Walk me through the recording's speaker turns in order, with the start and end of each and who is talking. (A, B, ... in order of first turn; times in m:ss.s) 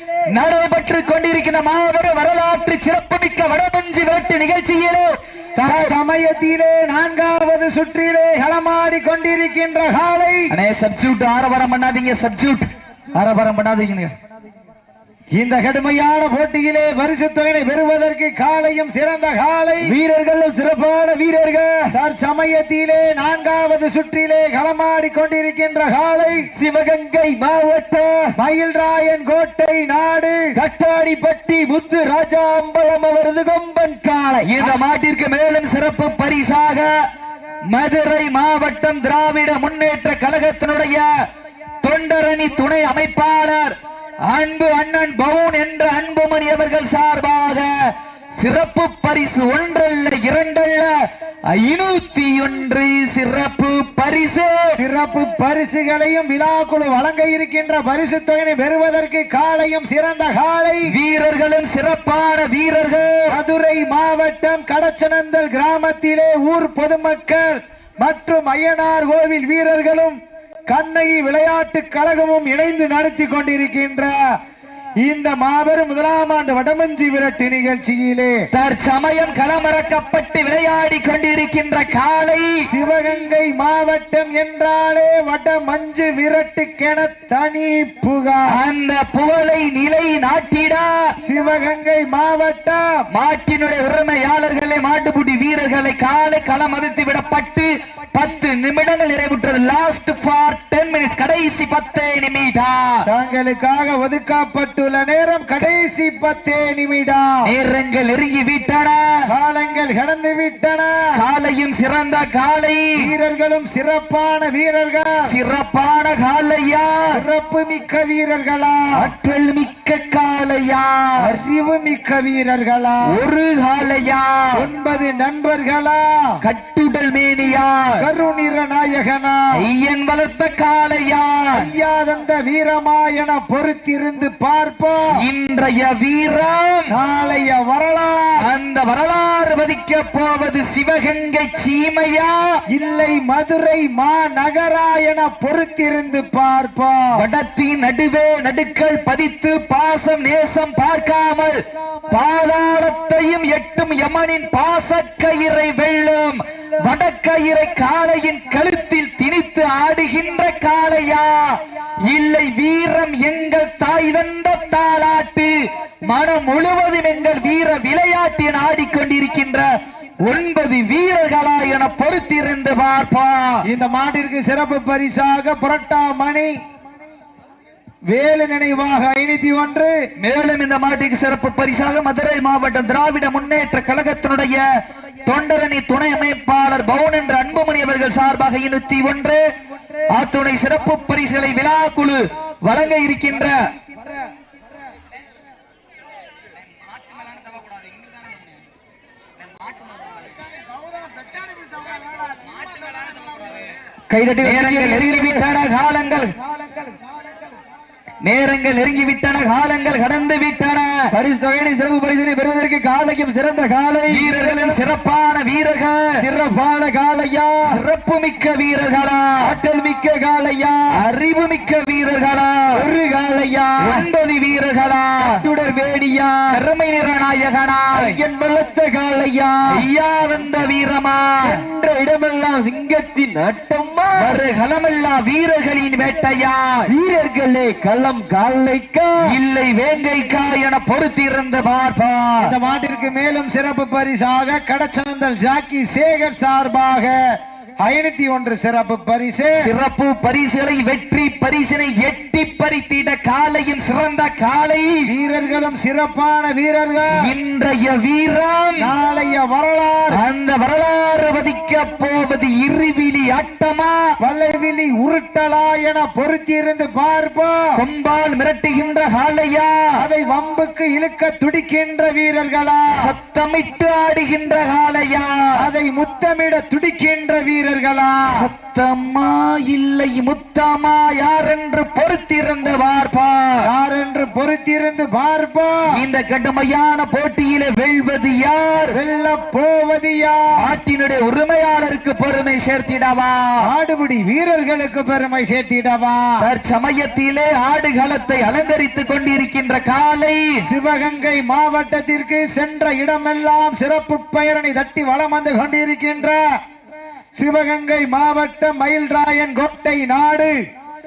0:00.3-0:06.0 A
0:05.6-0:10.5 B
0:10.5-0:14.1 A
0:15.3-0:19.9 B
0:19.8-0:21.9 C
0:21.9-0:26.5 B
0:26.5-0:28.2 C
0:28.4-0:30.4 B
0:30.5-0:34.7 C
0:34.4-0:36.9 A
0:37.7-0:41.1 A
0:41.8-0:54.8 A
0:54.8-1:00.9 B
1:00.9-1:03.4 A
1:03.3-1:10.2 B
1:10.7-1:14.2 B
1:15.0-1:18.4 B
1:18.5-1:22.7 A
1:22.7-1:28.6 B
1:28.5-1:31.1 A
1:31.2-1:32.9 B
1:33.1-1:43.1 A
1:43.1-1:47.3 B
1:47.4-1:49.3 A
1:49.3-1:50.9 B
1:51.1-1:53.1 A
1:53.0-1:55.1 B
1:55.3-1:57.2 A
1:57.1-1:59.0 B
1:59.0-2:01.3 A
2:01.2-2:03.0 B
2:03.1-2:04.7 A
2:04.5-2:06.2 B
2:06.4-2:08.0 A
2:08.0-2:09.4 B
2:09.6-2:11.7 A
2:11.6-2:15.0 B
2:15.2-2:16.9 A
2:16.9-2:18.4 B
2:18.4-2:22.6 A
2:22.7-2:27.0 B
2:27.2-2:31.6 A
2:32.1-2:45.5 A
2:46.0-2:49.7 A
2:50.2-2:53.6 A
2:53.7-2:56.5 B
2:58.1-2:59.9 B
3:00.2-3:04.6 A
3:05.2-3:09.4 A
3:10.1-3:13.6 A
3:19.7-3:20.3 A
3:21.1-3:23.1 B
3:24.1-3:25.5 C
3:24.4-3:26.3 A
3:28.2-3:31.1 A
3:31.1-3:34.8 C
3:34.1-3:36.2 A
3:36.2-3:37.8 C
3:37.6-3:39.5 A
3:39.4-3:40.9 C
3:40.9-3:42.7 A
3:42.7-3:44.1 C
3:43.8-3:45.4 A
3:45.2-3:46.6 C
3:46.5-3:48.2 A
3:47.9-3:49.9 C
3:49.7-3:51.6 A
3:51.4-3:54.4 C
3:54.2-3:56.9 A
3:56.9-3:59.2 C
3:59.2-4:02.5 A
4:02.4-4:07.2 B
4:07.8-4:09.5 B
4:09.6-4:15.1 A
4:15.1-4:17.1 B
4:17.2-4:18.9 A
4:18.8-4:20.2 B
4:20.1-4:24.1 A
4:24.2-4:27.6 B
4:27.8-4:30.0 A
4:30.0-4:33.0 B
4:33.0-4:35.6 A
4:35.6-4:38.2 B
4:38.3-4:43.6 A
4:43.6-4:45.8 B
4:45.9-4:49.0 A
4:48.9-4:50.4 B
4:50.6-4:53.6 A
4:53.6-4:56.4 B
4:56.4-5:00.6 A
5:00.7-5:06.4 B
5:07.3-5:10.6 B